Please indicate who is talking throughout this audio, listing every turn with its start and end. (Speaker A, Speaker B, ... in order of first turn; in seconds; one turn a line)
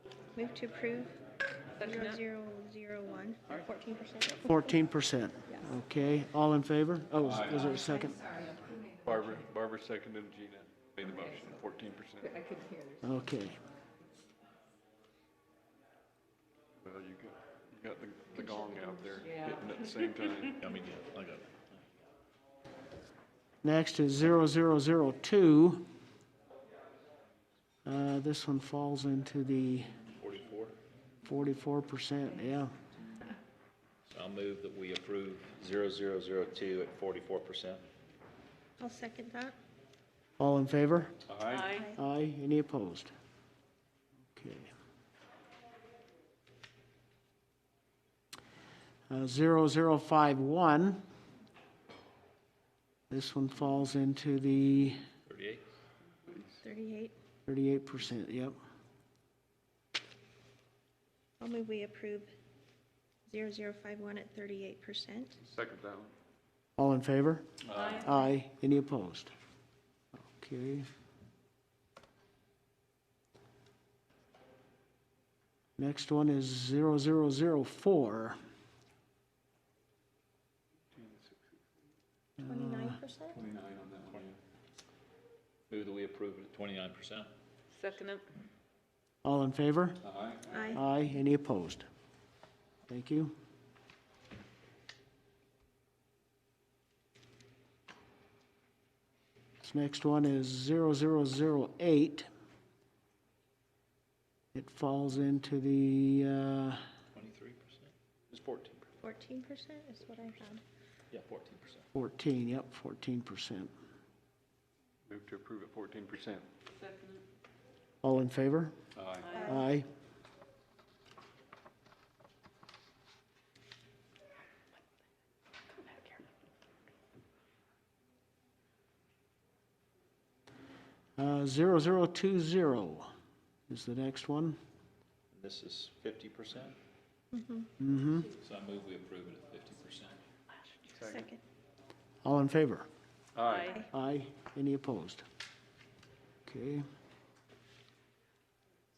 Speaker A: 0.3-1.2
Speaker A: 1.8-4.5
Speaker B: 1.8-2.2
Speaker C: 4.5-8.5
Speaker D: 7.2-12.4
Speaker B: 12.2-13.0
Speaker C: 13.0-13.6
Speaker D: 16.8-20.6
Speaker B: 19.2-19.6
Speaker E: 20.6-21.8
Speaker C: 23.6-25.9
Speaker C: 27.9-29.9
Speaker E: 30.2-30.8
Speaker C: 31.2-32.7
Speaker E: 34.1-37.8
Speaker A: 38.8-39.6
Speaker C: 40.4-41.2
Speaker D: 41.3-41.8
Speaker B: 41.5-41.9
Speaker A: 41.7-42.0
Speaker C: 41.9-43.1
Speaker C: 44.3-44.7
Speaker C: 49.1-51.0
Speaker C: 53.1-55.0
Speaker E: 55.3-55.6
Speaker A: 56.6-57.1
Speaker C: 57.5-58.6
Speaker A: 61.4-62.3
Speaker A: 63.3-65.4
Speaker D: 65.4-66.1
Speaker C: 66.8-69.3
Speaker D: 67.6-68.1
Speaker B: 67.8-68.3
Speaker C: 70.2-70.9
Speaker C: 75.8-78.4
Speaker D: 81.0-81.4
Speaker A: 82.4-83.4
Speaker C: 82.4-82.9
Speaker D: 83.3-84.4
Speaker E: 85.7-87.3
Speaker B: 87.7-88.3
Speaker C: 89.2-90.0
Speaker D: 90.0-90.6
Speaker A: 90.5-90.8
Speaker C: 90.7-91.9
Speaker C: 92.9-93.3
Speaker C: 99.6-102.3
Speaker C: 104.5-106.8
Speaker E: 107.2-108.9
Speaker A: 109.0-110.6
Speaker E: 111.1-111.9
Speaker C: 111.9-113.7
Speaker D: 115.1-116.5
Speaker B: 116.7-117.2
Speaker C: 118.0-118.7
Speaker D: 119.0-119.4
Speaker B: 119.2-119.6
Speaker A: 119.3-119.7
Speaker C: 119.5-119.9
Speaker C: 131.2-133.1
Speaker C: 133.7-134.6
Speaker E: 135.3-136.8
Speaker A: 137.3-137.7
Speaker C: 137.8-138.3
Speaker E: 138.3-140.2
Speaker D: 140.9-141.3
Speaker A: 140.9-141.4
Speaker C: 142.2-142.9
Speaker D: 143.3-143.8
Speaker B: 143.4-143.8
Speaker C: 143.9-145.2
Speaker C: 146.5-146.9